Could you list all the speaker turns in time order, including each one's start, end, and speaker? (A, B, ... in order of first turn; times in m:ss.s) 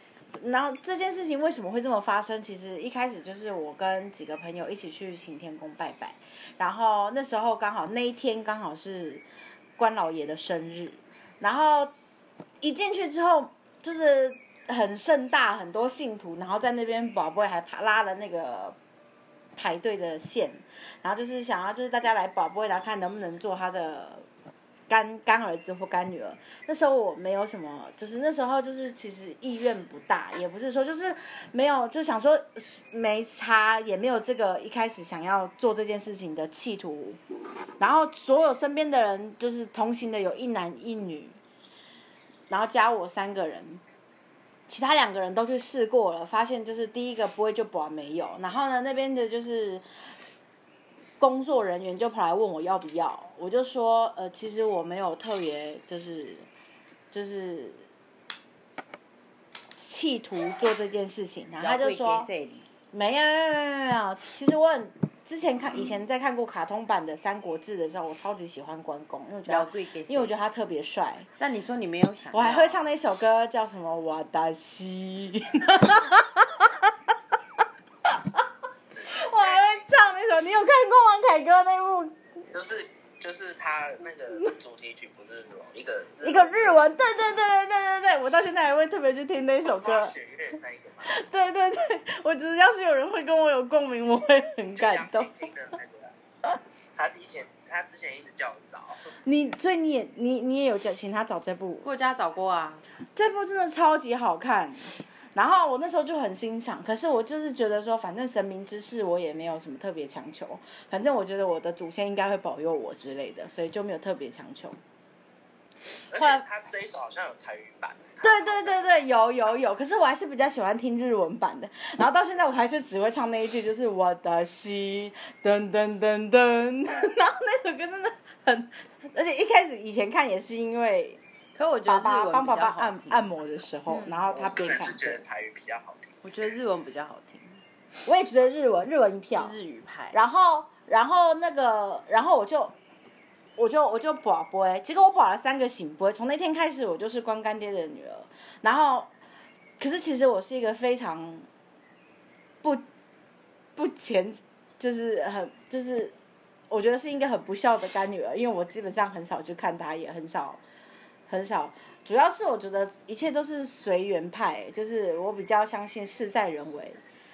0:00.4-0:09.2 A
0:09.8-0:11.9 A
0:12.6-0:18.8 A
0:19.6-0:24.2 A
0:24.9-0:37.2 A
0:37.8-0:41.4 A
0:42.5-0:43.8 A
0:44.7-0:49.8 A
0:51.2-0:56.5 A
0:57.1-0:57.9 A
0:59.8-1:02.3 A
1:01.6-1:02.7 B
1:02.9-1:11.3 A
1:09.5-1:10.3 B
1:11.4-1:12.8 B
1:12.3-1:16.9 A
1:18.0-1:18.4 A
1:18.9-1:19.8 C
1:19.1-1:22.2 A
1:22.5-1:26.8 C
1:26.2-1:30.1 A
1:29.8-1:31.2 C
1:31.1-1:35.3 A
1:34.8-1:36.1 C
1:37.0-1:39.0 C
1:39.2-1:41.9 A
1:41.8-1:42.8 B
1:43.2-1:54.8 A
1:56.1-1:58.9 C
1:56.2-1:56.4 A
1:58.2-2:11.2 A
2:11.6-2:13.3 B
2:11.9-2:15.2 A
2:14.2-2:14.6 B
2:14.5-2:16.2 C
2:16.2-2:17.6 B
2:18.0-2:19.6 A
2:19.4-2:20.2 B
2:20.1-2:22.8 A
2:23.6-2:29.1 A
2:29.8-2:31.5 A
2:33.8-2:36.2 A
2:36.7-2:40.6 A
2:41.3-2:47.0 A